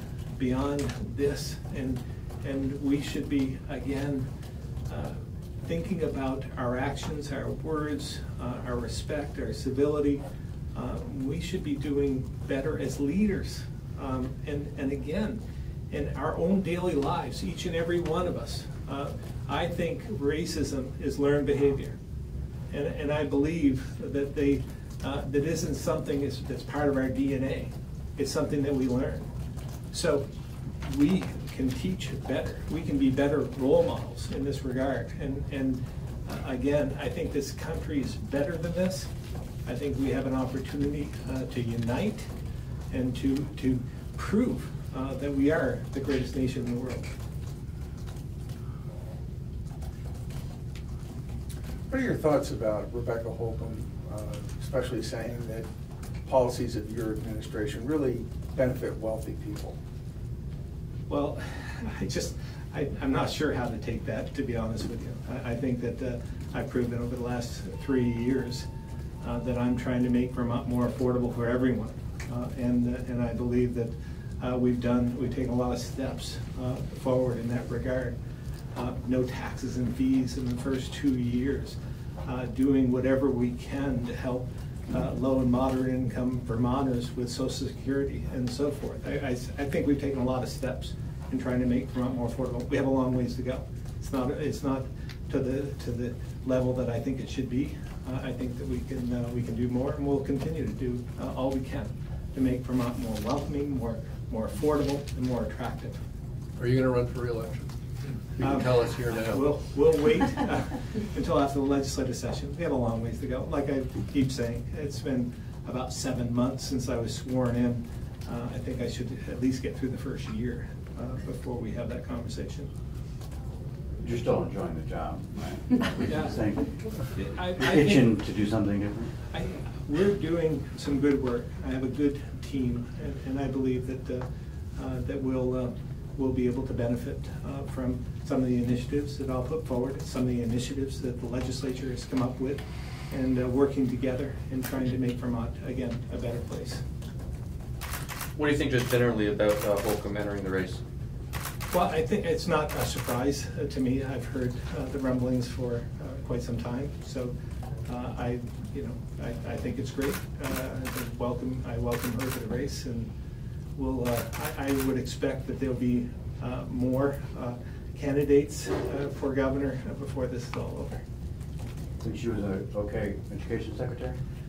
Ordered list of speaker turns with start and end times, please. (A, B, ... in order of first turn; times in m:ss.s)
0:00.4-0:04.3 A
0:04.9-0:10.2 A
0:10.7-0:22.0 A
0:22.7-0:29.3 A
0:29.9-0:30.3 A
0:30.8-0:39.1 A
0:39.6-0:42.3 A
0:42.9-0:47.1 A
0:51.9-0:55.7 B
0:56.2-0:59.8 B
1:01.1-1:08.7 A
1:09.2-1:18.2 A
1:18.8-1:46.0 A
1:46.6-1:47.7 C
1:48.4-1:49.6 C
1:48.4-2:02.7 A
2:04.0-2:09.2 D
2:06.1-2:06.4 A
2:07.4-2:08.1 A
2:09.3-2:26.8 A
2:28.4-2:30.8 E
2:31.7-2:37.3 A
2:37.9-2:43.1 A
2:43.8-2:51.0 A
2:52.0-2:54.2 D